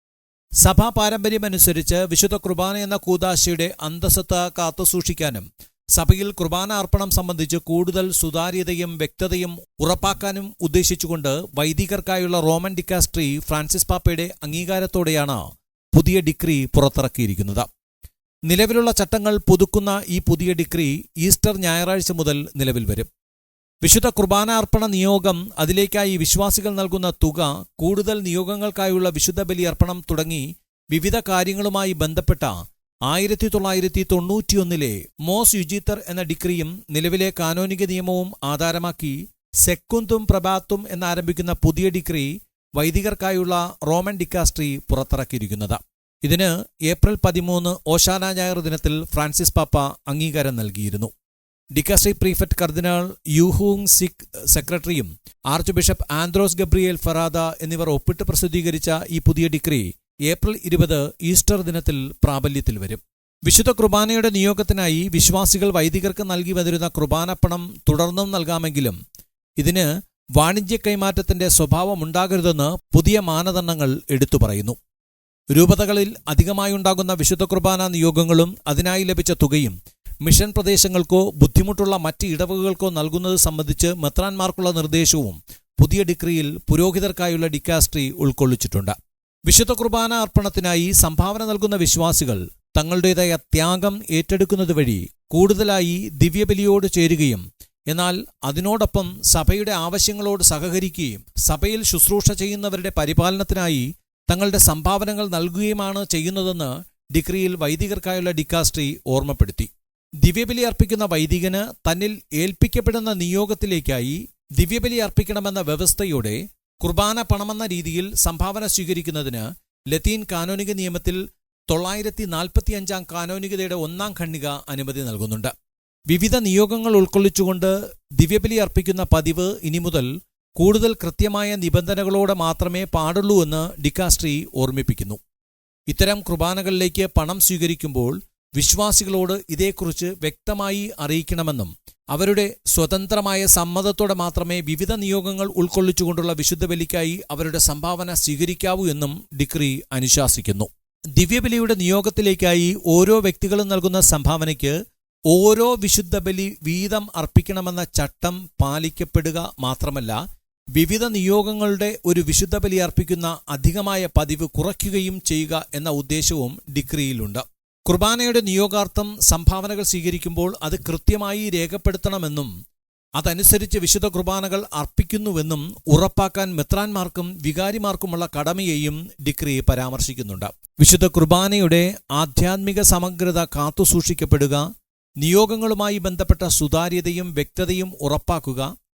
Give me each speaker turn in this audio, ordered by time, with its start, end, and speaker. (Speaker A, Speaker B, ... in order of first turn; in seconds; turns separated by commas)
Speaker A: 0.6-15.4, Speaker A: 15.9-17.7, Speaker A: 18.5-23.1, Speaker A: 23.8-32.5, Speaker A: 33.1-51.1, Speaker A: 51.8-69.0, Speaker A: 69.6-74.8, Speaker A: 75.5-89.0, Speaker A: 89.5-109.7, Speaker A: 110.2-125.5, Speaker A: 126.1-135.2, Speaker A: 135.9-154.8, Speaker A: 155.3-160.2, Speaker A: 160.8-172.5, Speaker A: 173.2-184.6, Speaker A: 185.2-188.7